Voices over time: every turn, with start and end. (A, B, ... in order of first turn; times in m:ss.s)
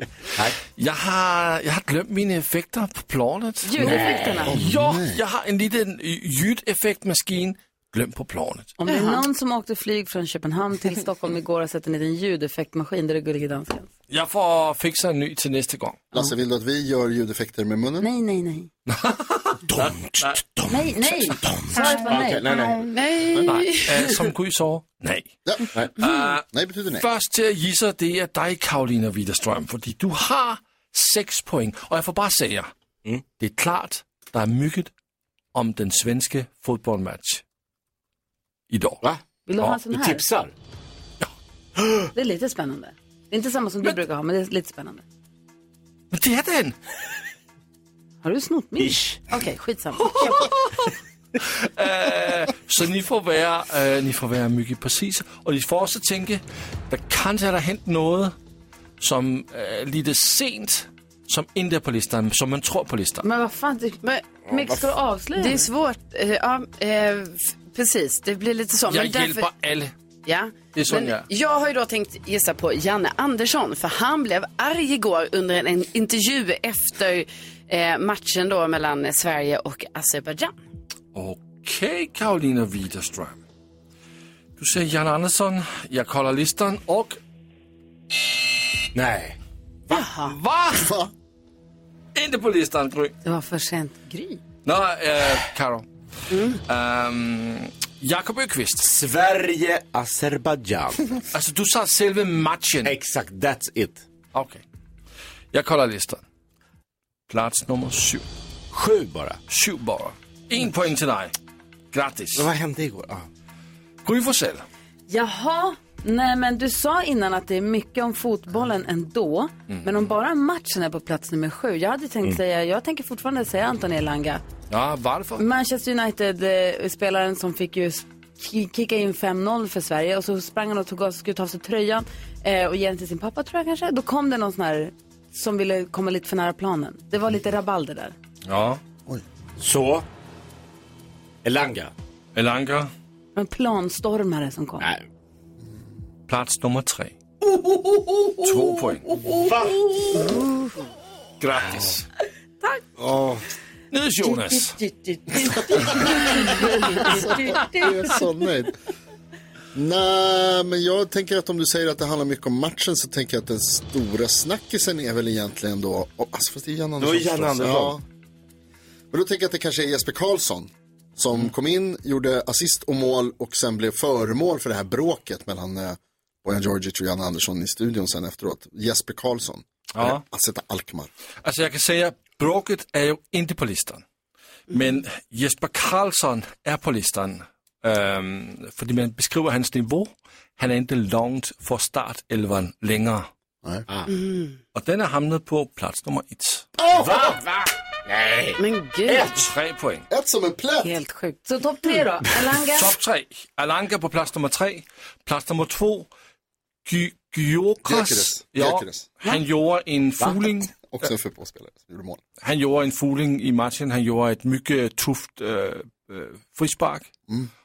0:00.7-0:08.7 A
0:03.6-0:04.6 B
0:03.8-0:04.6 C
0:04.4-0:05.2 D
0:08.8-0:13.9 B
0:08.9-0:09.2 E
0:14.1-0:16.0 A
0:16.1-0:18.1 D
0:18.0-0:18.7 B
0:19.0-0:20.4 A
0:19.7-0:22.9 C
0:20.7-0:22.5 B
0:22.9-0:24.2 E
0:23.5-0:26.4 A
0:26.5-0:27.0 D
0:27.0-0:32.7 A
0:33.4-0:34.9 A
0:35.5-0:37.4 A
0:38.7-0:39.0 A
0:39.0-0:40.5 C
0:39.4-0:40.2 B
0:41.8-0:42.0 C
0:42.1-0:45.0 B
0:46.1-0:46.8 A
0:48.2-0:50.5 B
0:48.8-0:49.2 C
0:50.1-0:50.9 A
0:51.4-0:58.3 A
0:59.0-1:03.2 A
1:03.2-1:05.7 B
1:04.5-1:04.8 C
1:05.4-1:09.5 E
1:08.9-1:09.9 A
1:10.2-1:20.5 E
1:10.7-1:11.2 A
1:21.1-1:23.4 A
1:24.6-1:27.2 A
1:28.9-1:29.4 C
1:29.9-1:30.4 E
1:30.2-1:30.9 A
1:30.8-1:31.1 D
1:32.1-1:33.1 A
1:33.2-1:34.4 B
1:34.6-1:35.9 A
1:36.3-1:36.6 E
1:36.7-1:38.8 A
1:38.8-1:41.2 C
1:41.3-1:42.9 A
1:42.8-1:44.0 C
1:44.3-1:44.6 A
1:45.5-1:46.2 A
1:47.3-1:48.2 A
1:48.7-1:49.4 C
1:49.5-1:51.3 A
1:51.9-1:52.5 A
1:52.4-1:53.2 C
1:54.0-1:54.6 A
1:55.1-2:04.4 B
1:59.7-2:00.0 A
2:04.7-2:05.4 A
2:05.4-2:18.1 B
2:18.4-2:18.8 A
2:19.6-2:20.0 C
2:21.4-2:21.9 C
2:22.3-2:22.9 A
2:23.4-2:24.9 B
2:26.3-2:27.1 A
2:28.4-2:29.1 A
2:29.2-2:30.4 C
2:31.4-2:32.0 A
2:31.6-2:31.9 C
2:33.0-2:33.4 C
2:33.9-2:34.8 A
2:34.3-2:35.9 B
2:37.0-2:38.2 B
2:37.1-2:38.7 D
2:39.7-2:48.0 D
2:47.0-2:48.0 C
2:49.1-3:01.1 D
2:59.9-3:00.2 A
3:01.4-3:04.0 A
3:04.7-3:13.3 A
3:14.1-3:14.6 E
3:14.7-3:16.6 A
3:16.8-3:19.5 C
3:16.8-3:17.3 D
3:18.6-3:19.4 E
3:19.5-3:20.0 A
3:20.1-3:20.9 D
3:20.8-3:22.9 B
3:22.7-3:26.1 A
3:26.8-3:30.9 A
3:27.8-3:29.1 D
3:30.9-3:32.2 D
3:32.4-3:37.1 A